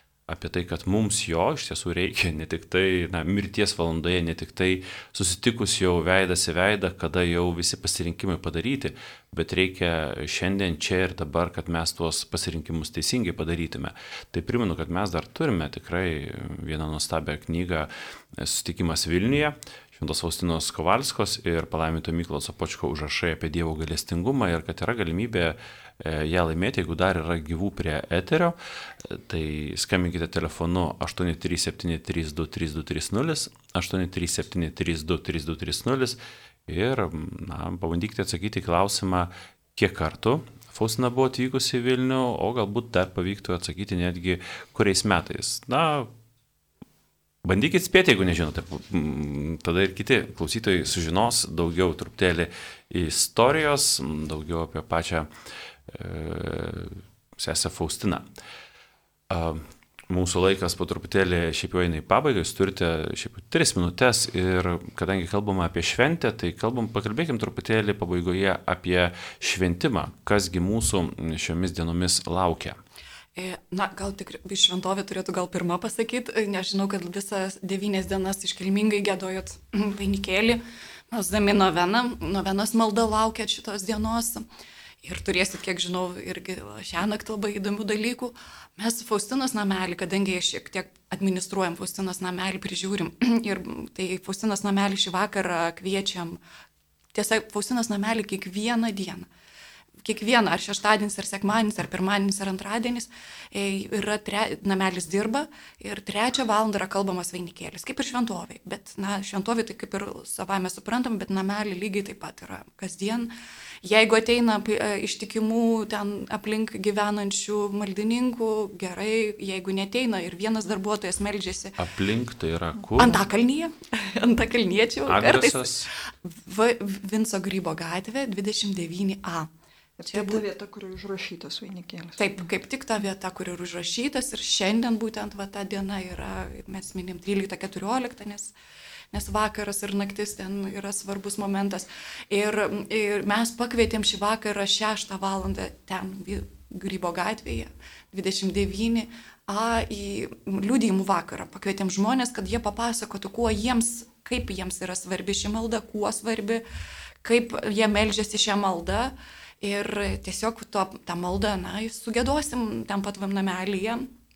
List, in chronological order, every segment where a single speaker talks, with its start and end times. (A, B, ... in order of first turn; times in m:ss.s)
0:00.3-0:46.1 A
0:47.4-0:55.3 A
0:55.9-0:58.3 A
0:59.3-1:12.8 A
1:13.4-1:24.4 B
1:25.0-1:36.4 B
1:37.1-1:39.3 B
1:40.0-1:53.3 B
1:53.8-2:01.8 B
2:01.8-2:03.2 A
2:03.0-2:09.5 B
2:05.1-2:05.9 A
2:10.0-2:12.2 C
2:10.1-2:10.4 B
2:12.2-2:18.5 B
2:19.1-2:36.6 B
2:37.2-2:44.1 B